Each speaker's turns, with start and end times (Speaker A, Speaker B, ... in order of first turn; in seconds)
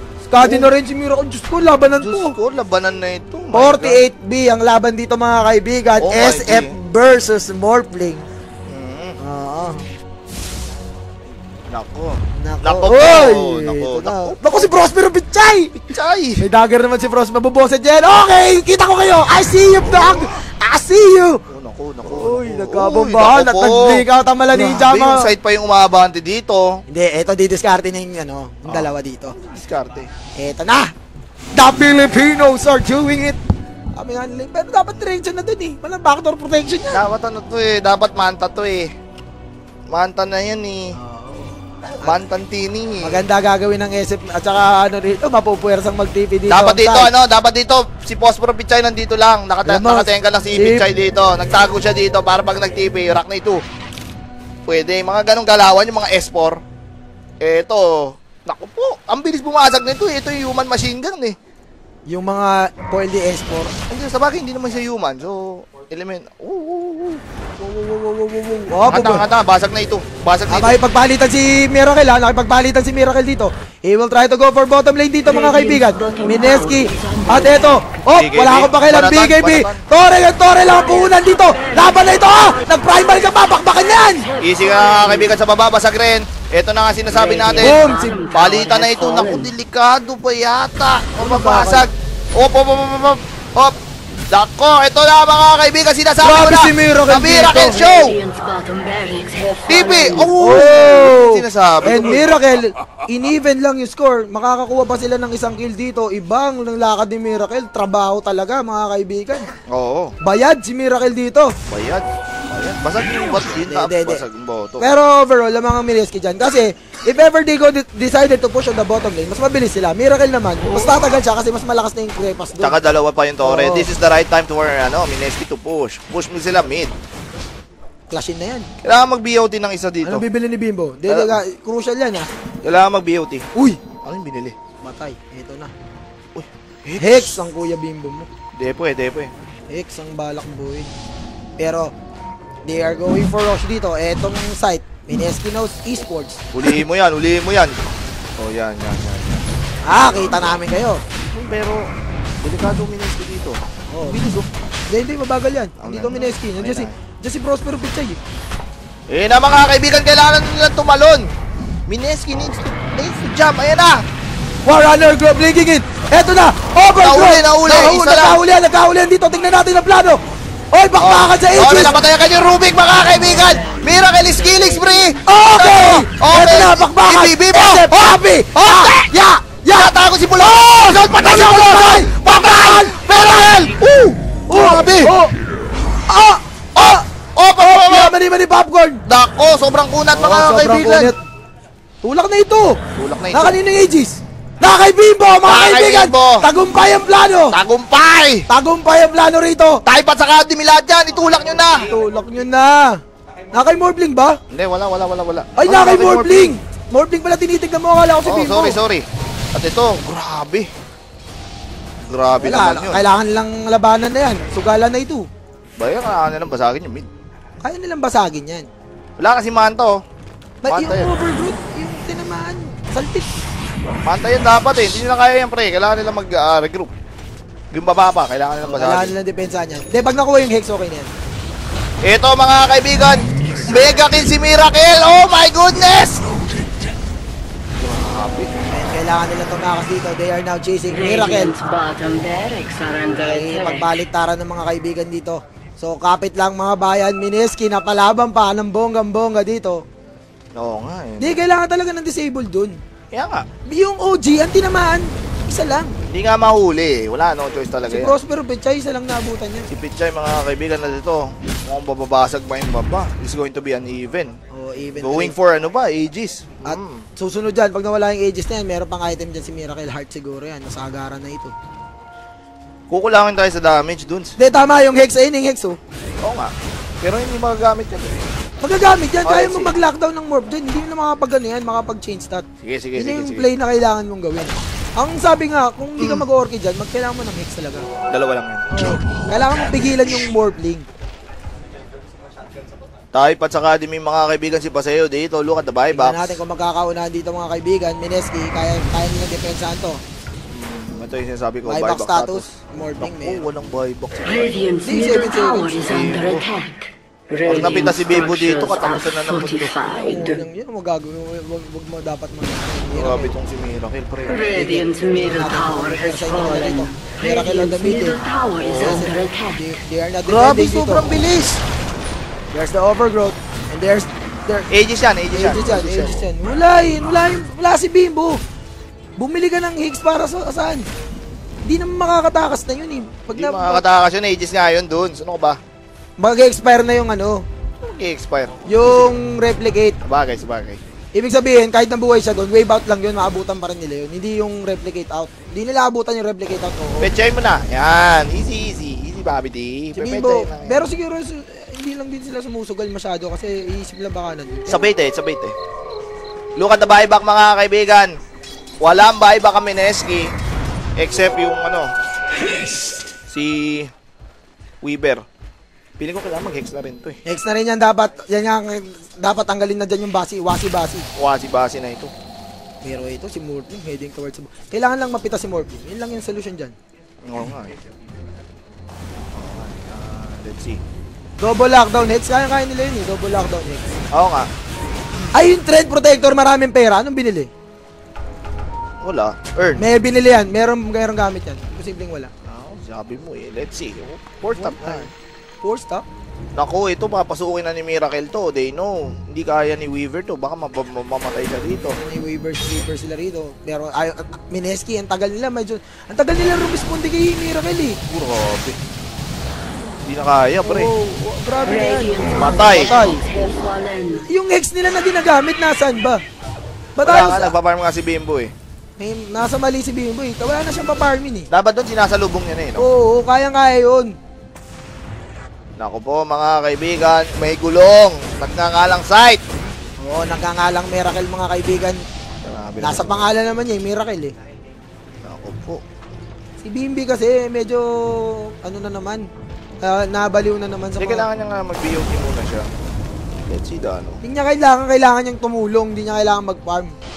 Speaker A: 0.3-2.3, 3.5-8.3, 9.2-9.8, 12.4-15.8, 16.4-21.4, 22.1-25.3, 26.9-29.4, 30.4-30.9, 31.5-33.4, 34.0-37.0, 41.0-42.2, 43.0-47.1, 49.6-50.9, 62.1-63.7, 67.6-69.2, 70.5-84.2, 87.6-88.2, 91.2-91.9, 96.2-97.8, 100.4-109.5, 110.2-111.5, 113.7-114.2, 114.8-122.8, 123.4-123.9, 128.1-128.7, 130.0-132.3, 133.6-133.8, 134.8-135.7, 137.0-138.3, 139.7-140.9, 141.6-141.9, 142.7-146.4, 149.9-151.0, 153.9-154.2, 154.9-158.2, 164.7-170.2, 170.7-172.0, 175.3-183.0, 184.5-185.3, 186.1-187.1, 187.6-189.0, 190.1-191.2, 192.0-192.8, 193.3-197.6, 198.5-199.8, 201.8-203.0, 203.5-204.4, 205.6-208.8, 212.4-215.3, 217.6-218.7, 220.6-223.3, 228.6-231.1, 238.7-241.5, 243.2-249.8, 251.2-252.8, 253.7-256.0, 257.9-259.7, 264.5-265.4, 266.6-271.5, 274.4-275.8, 278.6-282.4, 283.0-287.9, 288.7-290.9, 295.9-300.0, 301.7-303.4, 304.8-305.9, 310.0-313.3, 314.3-318.2, 318.7-321.1, 322.5-324.7, 325.3-328.4, 329.2-330.9, 331.7-333.8, 336.2-337.5, 338.7-340.0, 341.1-347.1, 349.9-354.9, 367.3-371.1, 372.8-376.7, 381.4-384.0, 385.3-387.5, 389.8-392.3, 394.6-395.1, 395.6-396.1, 402.0-408.0, 410.6-413.2, 414.3-416.2, 417.0-417.5, 419.0-421.5, 422.8-424.1, 430.0-432.0, 432.8-434.3, 436.6-439.3, 439.8-441.3, 444.2-446.9
Speaker B: 0.4-0.7, 2.0-4.0, 6.0-6.7, 8.7-9.2, 11.7-14.7, 15.8-16.4, 21.5-26.8, 28.7-30.1, 36.9-38.9, 39.9-40.9, 42.0-43.2, 46.5-53.6, 54.7-56.6, 57.4-61.4, 63.9-67.2, 68.9-70.8, 78.1-79.8, 84.4-93.8, 94.3-98.2, 99.7-102.3, 109.7-110.1, 111.7-114.9, 120.6-121.1, 122.6-126.9, 128.8-130.3, 131.1-131.4, 132.6-133.5, 134.0-134.6, 136.3-137.3, 138.6-139.3, 146.5-147.8, 148.4-149.5, 151.3-151.9, 152.4-154.5, 155.8-156.9, 159.1-161.3, 161.9-164.0, 166.9-168.4, 171.0-185.2, 186.8-188.2, 189.1-191.1, 192.9-193.6, 195.4-196.5, 197.5-198.4, 199.9-201.9, 204.5-206.6, 208.2-210.7, 212.1-213.0, 215.8-217.1, 219.2-220.0, 220.7-221.1, 224.1-226.9, 227.7-229.1, 232.0-236.2, 237.8-238.5, 250.6-251.4, 253.1-253.5, 256.1-258.1, 259.7-264.3, 265.0-267.1, 272.9-274.3, 276.2-278.2, 279.2-279.8, 282.6-283.5, 286.0-286.2, 288.1-289.0, 293.1-296.4, 300.5-304.6, 305.8-306.4, 307.4-309.8, 312.9-314.5, 318.6-319.1, 320.3-321.6, 324.7-326.2, 333.3-335.6, 337.8-339.2, 340.0-340.8, 347.0-350.9, 354.7-355.6, 356.6-358.2, 358.8-360.3, 361.0-361.9, 363.3-363.9, 364.8-365.2, 366.0-367.2, 371.2-372.1, 377.2-377.8, 379.3-380.8, 384.1-384.5, 389.0-389.9, 392.4-395.1, 396.6-402.0, 408.1-408.8, 410.1-410.9, 412.4-413.0, 417.0-418.5, 421.5-422.9, 425.8-429.4, 432.4-433.3, 435.2-435.8, 441.0-442.7, 443.5-444.2
Speaker C: 75.3-78.0, 80.6-85.4, 87.1-89.5, 97.5-100.3, 173.4-175.0, 240.9-244.0, 304.2-310.4, 314.3-319.6, 411.6-414.2